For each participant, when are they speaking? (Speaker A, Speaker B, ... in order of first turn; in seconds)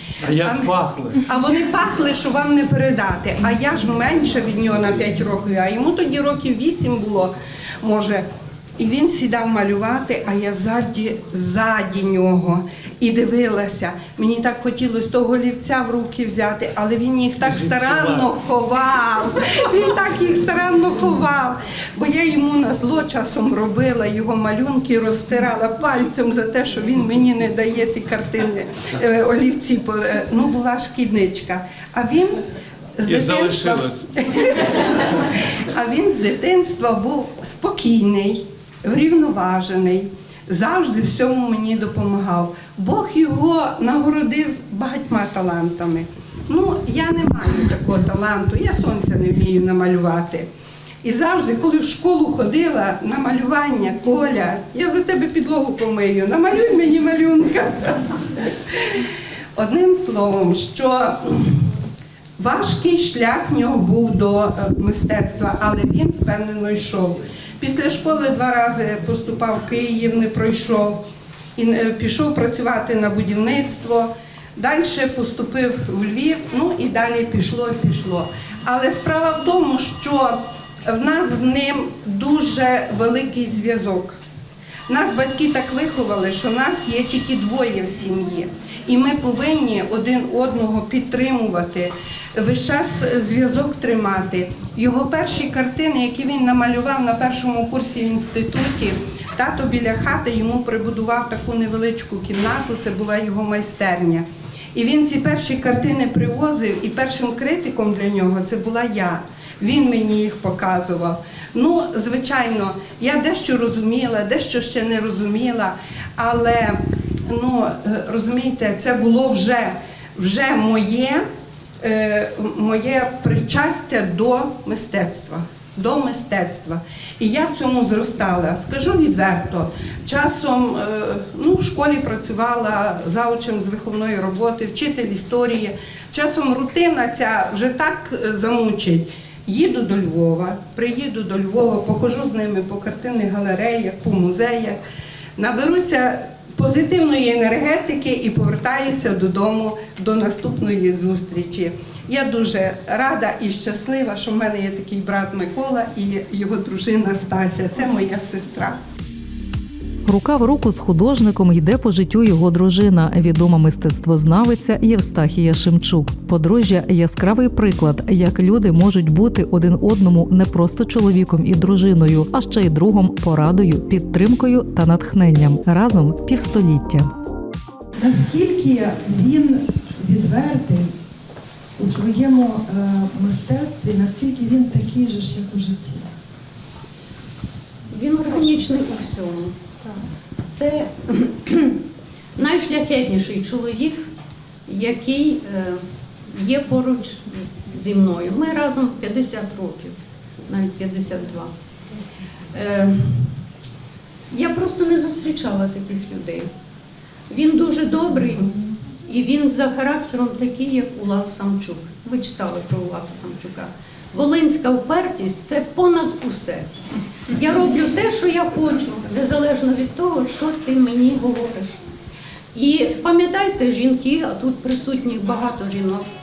Speaker A: 0.2-1.2, 17.4-18.3, 33.0-34.1
Speaker B: 0.4-7.3, 7.8-8.2, 8.8-32.4, 33.0-50.5, 51.0-59.0, 59.5-61.6, 62.4-71.0, 71.5-84.2, 84.9-116.8, 117.3-121.2, 121.8-144.8, 145.4-158.8
Speaker C: 160.1-177.1
Speaker D: 178.0-180.9, 181.8-186.0
Speaker E: 187.9-189.5, 190.5-191.8, 192.4-194.1, 194.7-199.9, 200.5-201.5, 202.5-203.4, 204.3-206.5, 207.3-216.7, 217.3-221.8, 222.5-226.1